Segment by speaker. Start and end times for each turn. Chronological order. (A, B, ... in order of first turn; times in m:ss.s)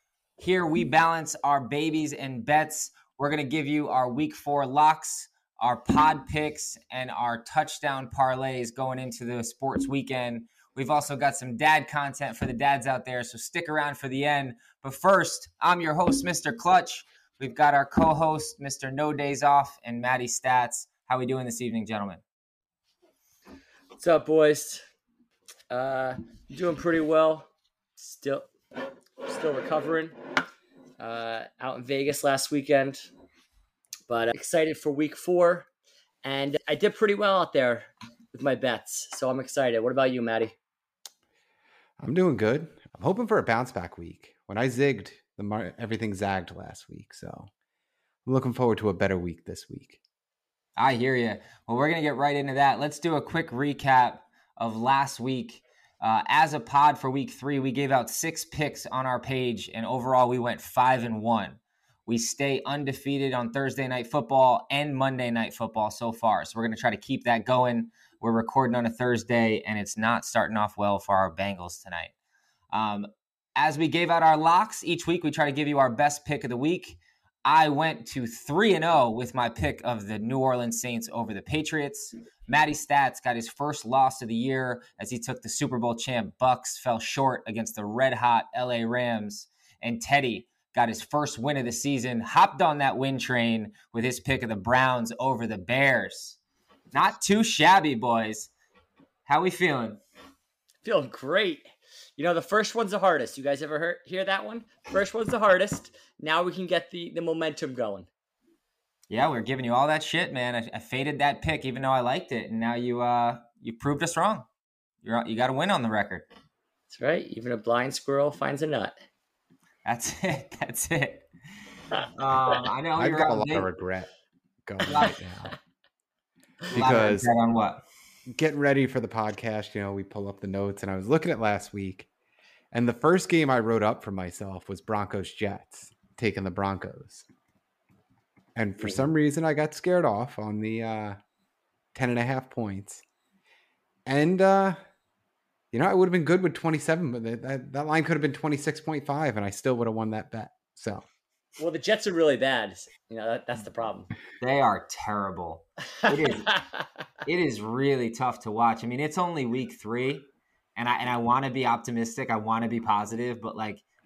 0:00.4-0:22.2 A
0:24.0-0:24.8 B
0:25.7-0:28.5 B
0:29.2-0:30.2 B
0:31.0-0:33.1 B
0:34.1-0:35.7 B
0:36.2-0:40.5 B
0:42.0-0:47.5 C
0:48.2-0:50.0 C
0:50.8-1:12.1 A
1:12.7-1:36.4 A
1:36.9-1:38.5 A
1:39.2-1:40.0 A
1:40.8-1:48.1 B
1:49.1-1:54.5 A
1:55.0-1:56.3 A
1:56.9-1:59.0 B
1:59.8-2:01.3 A
2:02.0-2:02.7 B
2:02.1-2:03.7 A
2:03.0-2:04.1 C
2:04.6-2:05.5 C
2:04.9-2:05.2 A
2:06.7-2:07.8 A
2:06.7-2:07.3 C
2:08.3-2:12.1 C
2:12.7-2:17.2 C
2:18.5-2:21.2 C
2:21.9-2:23.0 C
2:24.0-2:24.8 C
2:25.7-2:31.0 C
2:31.6-2:34.1 B
2:34.4-2:36.5 A
2:36.1-2:36.6 B
2:37.2-2:43.8 A